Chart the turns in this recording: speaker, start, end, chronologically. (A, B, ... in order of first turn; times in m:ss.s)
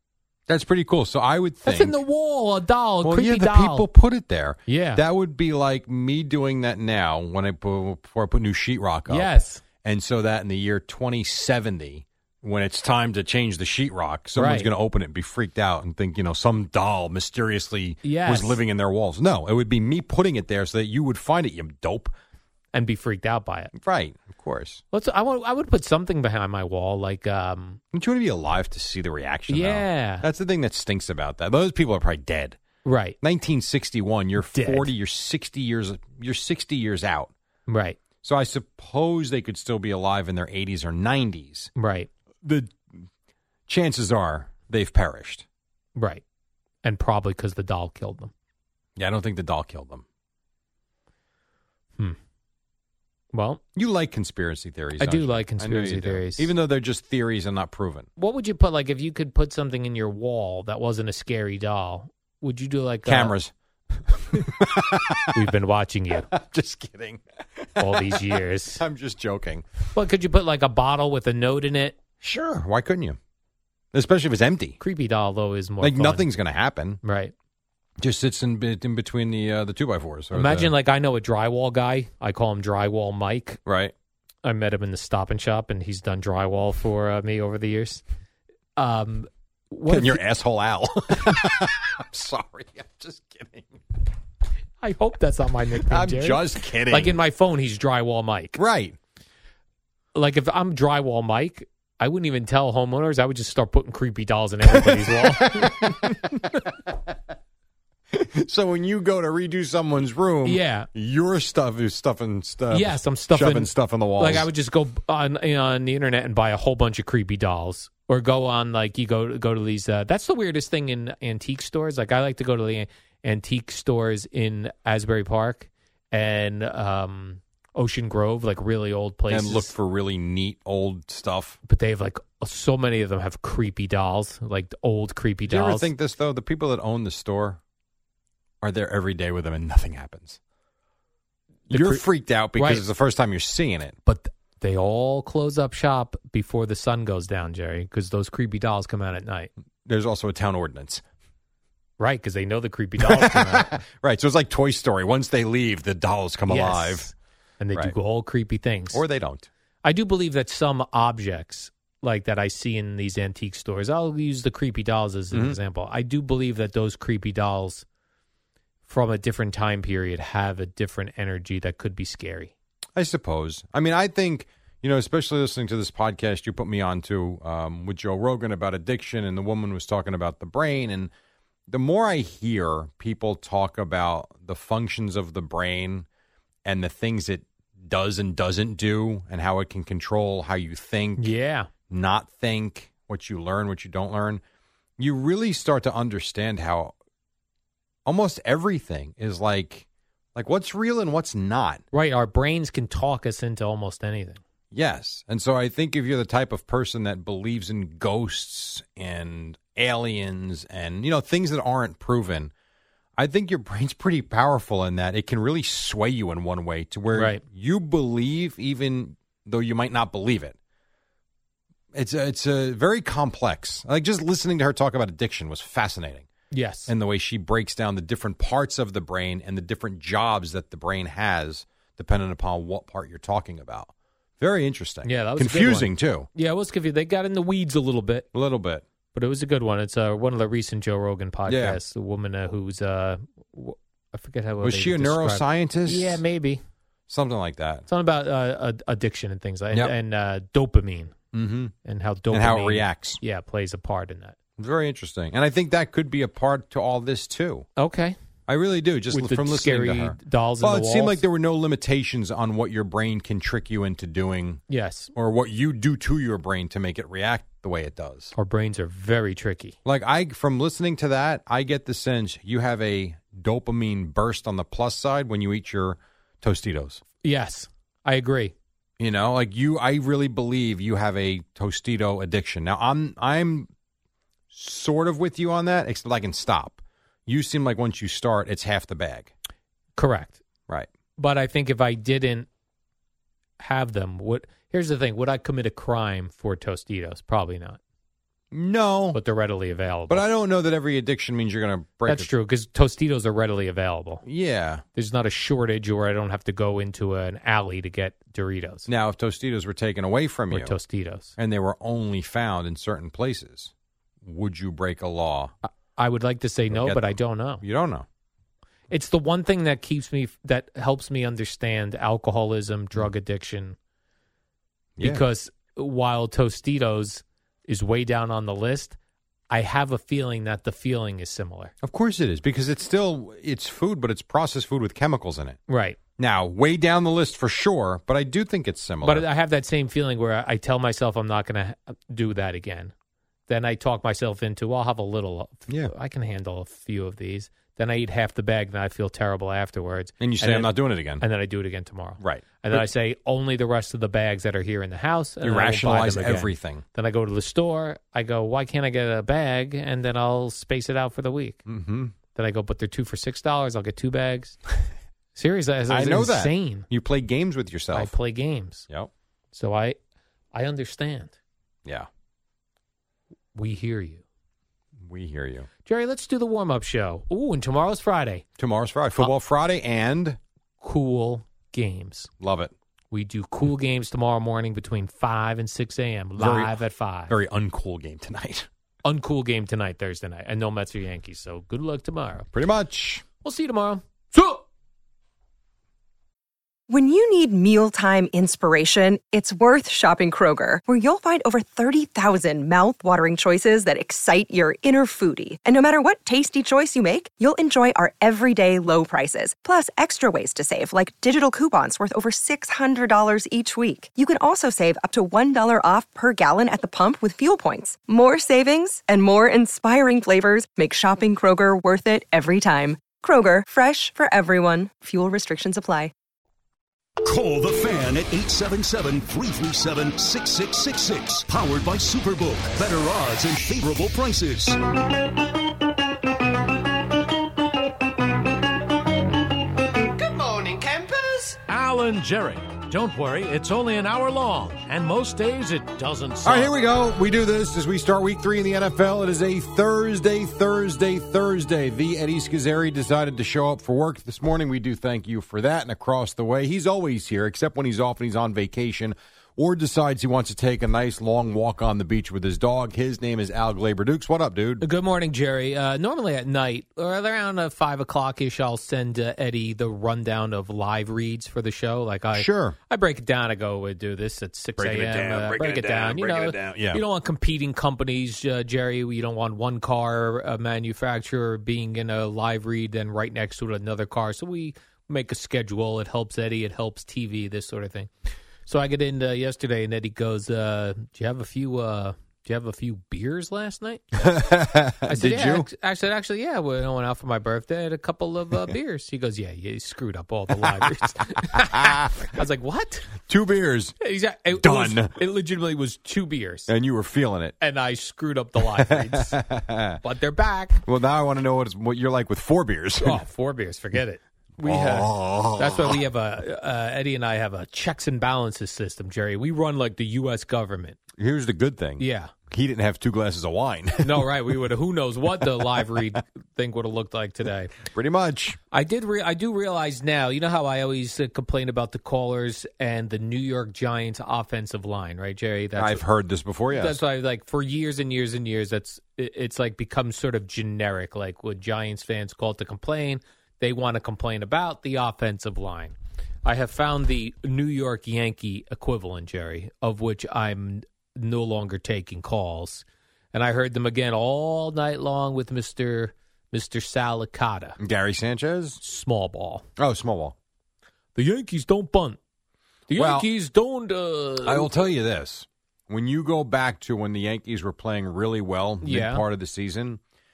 0:00.5-0:02.0 A
0:01.6-0:03.9 B
0:03.0-0:09.3 A
0:04.7-0:05.0 B
0:09.1-0:09.6 B
0:09.8-0:22.1 A
0:14.4-0:14.7 B
0:18.0-0:18.6 B
0:22.7-0:23.7 B
0:23.7-0:24.8 A
0:24.9-0:27.8 B
0:27.9-0:32.6 A
0:29.5-0:30.3 B
0:32.8-0:33.2 B
0:33.2-0:37.3 A
0:34.4-0:34.9 B
0:37.7-0:38.0 B
0:38.2-0:41.7 A
0:41.8-0:42.1 B
0:42.4-0:43.0 A
0:43.7-0:45.4 A
0:46.0-0:46.2 B
0:46.8-0:48.3 B
0:49.0-0:50.0 A
0:53.3-0:53.6 B
0:53.8-0:58.1 A
0:55.0-0:56.5 B
0:58.2-1:03.4 B
1:03.0-1:05.4 A
1:05.3-1:06.3 B
1:06.3-1:09.7 A
1:07.8-1:08.8 B
1:09.9-1:12.0 B
1:12.2-1:13.2 A
1:13.9-1:14.8 A
1:14.8-1:16.3 B
1:15.8-1:17.0 A
1:17.0-1:17.3 B
1:18.0-1:20.7 A
1:20.3-1:23.6 B
1:23.6-1:23.9 A
1:24.4-1:28.0 B
1:28.8-1:30.2 B
1:29.9-1:33.8 A
1:34.8-1:38.6 B
1:35.8-1:37.2 A
1:38.6-1:39.0 A
1:40.2-1:46.0 B
1:44.7-1:46.9 A
1:48.1-1:54.5 A
1:50.4-1:50.9 B
1:52.7-2:09.7 B
2:09.3-2:11.6 A
2:11.7-2:15.9 B
2:15.5-2:17.6 A
2:18.6-2:20.4 A
2:21.7-2:22.0 B
2:21.7-2:24.0 A
2:22.6-2:22.9 B
2:24.0-2:29.5 B
2:29.8-2:31.0 A
2:32.0-2:33.7 B
2:33.0-2:37.1 A
2:36.5-2:39.0 B
2:38.9-2:39.5 A
2:39.8-2:47.8 B
2:45.3-2:45.6 A
2:48.9-2:52.5 B
2:53.0-3:01.1 A
3:01.7-3:06.1 A
3:06.6-3:11.3 A
3:11.2-3:11.7 B
3:11.9-3:14.4 A
3:15.0-3:16.9 A
3:18.1-3:21.8 A
3:21.9-3:24.4 B
3:24.7-3:32.5 A
3:33.2-3:40.6 A
3:37.1-3:37.4 B
3:41.9-3:46.3 A
3:46.5-3:46.9 B
3:46.9-3:56.3 A
3:55.0-3:58.3 B
3:58.3-3:58.8 A
3:59.1-4:06.6 B
4:01.5-4:01.8 A
4:04.6-4:06.2 A
4:07.1-4:07.8 A
4:07.9-4:11.2 B
4:11.3-4:11.7 A
4:11.8-4:14.4 B
4:12.3-4:13.2 A
4:14.6-4:17.7 A
4:17.8-4:18.2 B
4:18.5-4:24.6 A
4:19.1-4:21.2 B
4:24.7-4:25.1 B
4:25.2-4:28.3 A
4:28.4-4:29.8 B
4:29.8-4:37.0 A
4:37.2-4:38.5 B
4:39.0-4:43.7 A
4:44.5-4:49.3 A
4:50.0-4:50.4 B
4:51.2-4:52.5 B
4:53.6-4:57.8 B
4:58.5-4:59.2 A
4:59.1-5:00.3 B
5:00.1-5:02.3 A
5:02.1-5:04.2 B
5:04.2-5:04.8 A
5:05.0-5:08.9 B
5:08.9-5:10.8 A
5:10.5-5:11.4 B
5:11.4-5:15.5 A
5:15.6-5:17.6 B
5:16.7-5:18.1 A
5:18.9-5:23.8 B
5:25.0-5:25.2 A
5:25.0-5:29.0 B
5:29.5-5:31.7 B
5:31.8-5:35.6 A
5:35.7-5:36.0 B
5:36.2-5:39.3 A
5:39.0-5:42.9 B
5:43.5-6:01.6 B
5:50.2-5:51.2 A
5:52.2-5:52.8 A
5:55.4-5:56.8 A
6:01.7-6:02.2 A
6:02.4-6:04.6 B
6:05.4-6:06.9 B
6:05.9-6:08.2 A
6:07.9-6:08.9 B
6:09.5-6:10.0 B
6:10.5-6:11.3 B
6:13.6-6:14.2 B
6:15.0-6:15.7 A
6:15.8-6:18.4 B
6:18.6-6:20.4 A
6:20.8-6:22.3 B
6:22.4-6:22.7 A
6:23.1-6:27.4 B
6:26.4-6:28.7 A
6:29.0-6:32.5 B
6:32.5-6:33.2 A
6:33.4-6:34.6 B
6:36.9-7:06.1 C
7:07.2-7:14.8 D
7:21.5-7:26.8 E
7:26.4-7:44.8 A
7:44.8-8:08.1 B
7:52.3-7:52.8 A
7:54.8-7:57.0 A
8:08.7-8:14.3 B
8:14.2-8:15.7 A
8:15.1-8:23.1 B
8:21.5-8:22.2 A
8:23.3-8:24.0 A
8:24.0-8:26.7 B
8:24.5-8:25.1 A
8:26.7-8:27.6 A
8:27.6-8:29.4 B
8:28.7-8:30.0 A
8:30.0-8:30.8 B
8:30.9-8:33.2 A
8:33.0-8:41.0 B
8:34.6-8:36.0 A
8:41.2-8:44.3 A
8:42.0-8:42.3 B
8:44.0-8:47.7 B
8:47.8-8:48.6 A
8:48.7-8:56.0 B
8:55.8-8:57.0 A
8:56.7-9:17.8 B
9:17.8-9:18.8 A
9:18.8-9:19.6 B
9:19.8-9:20.4 A
9:21.2-9:22.2 B
9:22.9-9:24.8 B
9:22.9-9:23.3 A
9:24.4-9:30.0 A
9:28.8-9:29.2 B